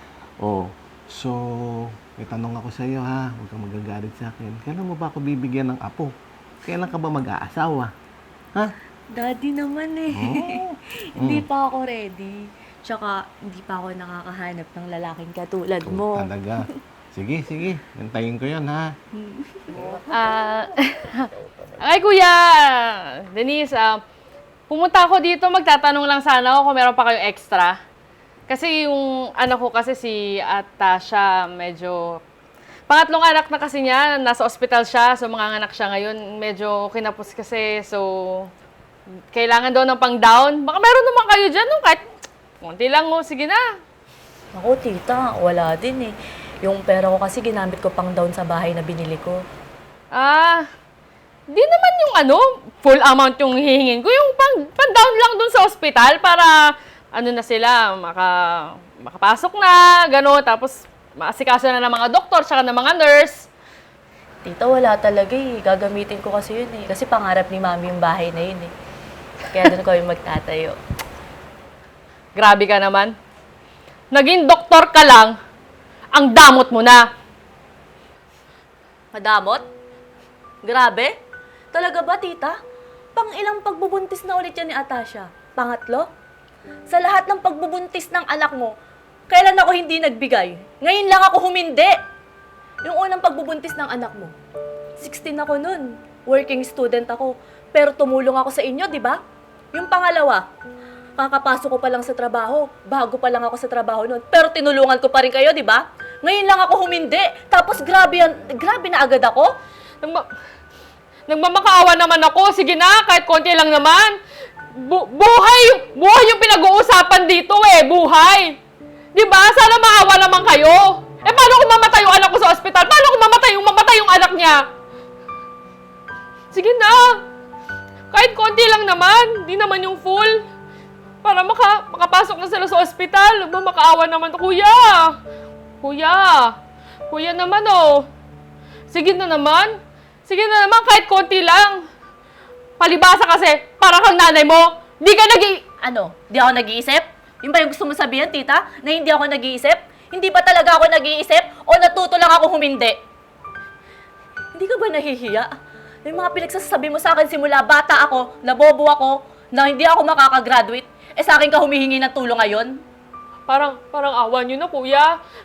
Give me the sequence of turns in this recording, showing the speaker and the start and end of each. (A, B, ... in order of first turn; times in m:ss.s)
0:00.4-0:06.1 A
0:06.6-0:07.9 A
0:09.1-0:16.7 B
0:10.1-0:10.6 A
0:11.2-0:11.5 A
0:15.8-0:18.9 A
0:19.1-0:20.0 B
0:19.7-0:20.0 A
0:20.1-0:21.3 C
0:21.8-0:24.0 C
0:24.7-0:27.8 C
0:28.5-0:32.2 C
0:32.9-0:38.5 C
0:39.3-0:42.0 C
0:42.6-0:43.6 C
0:44.5-0:49.4 B
0:50.1-0:50.6 C
0:51.5-0:56.5 C
0:57.2-1:03.5 C
1:04.4-1:08.7 B
1:09.5-1:10.8 B
1:12.4-1:13.1 C
1:14.1-1:15.4 C
1:16.1-1:17.1 C
1:19.1-1:19.6 B
1:20.6-1:21.1 B
1:21.7-1:22.6 B
1:23.2-1:26.1 B
1:26.9-1:28.7 B
1:29.3-1:31.9 B
1:32.8-1:34.3 B
1:35.0-1:39.2 B
1:39.7-1:40.4 B
1:41.2-1:49.5 B
1:51.3-1:54.2 C
1:54.8-1:58.6 C
1:59.2-2:04.6 C
2:06.5-2:07.2 C
2:08.1-2:10.4 C
2:11.2-2:15.0 C
2:15.8-2:16.5 C
2:17.1-2:18.0 C
2:18.9-2:19.8 C
2:20.3-2:21.8 C
2:22.8-2:25.7 C
2:25.8-2:33.0 B
2:34.5-2:35.5 B
2:36.0-2:42.8 B
2:43.5-2:45.1 C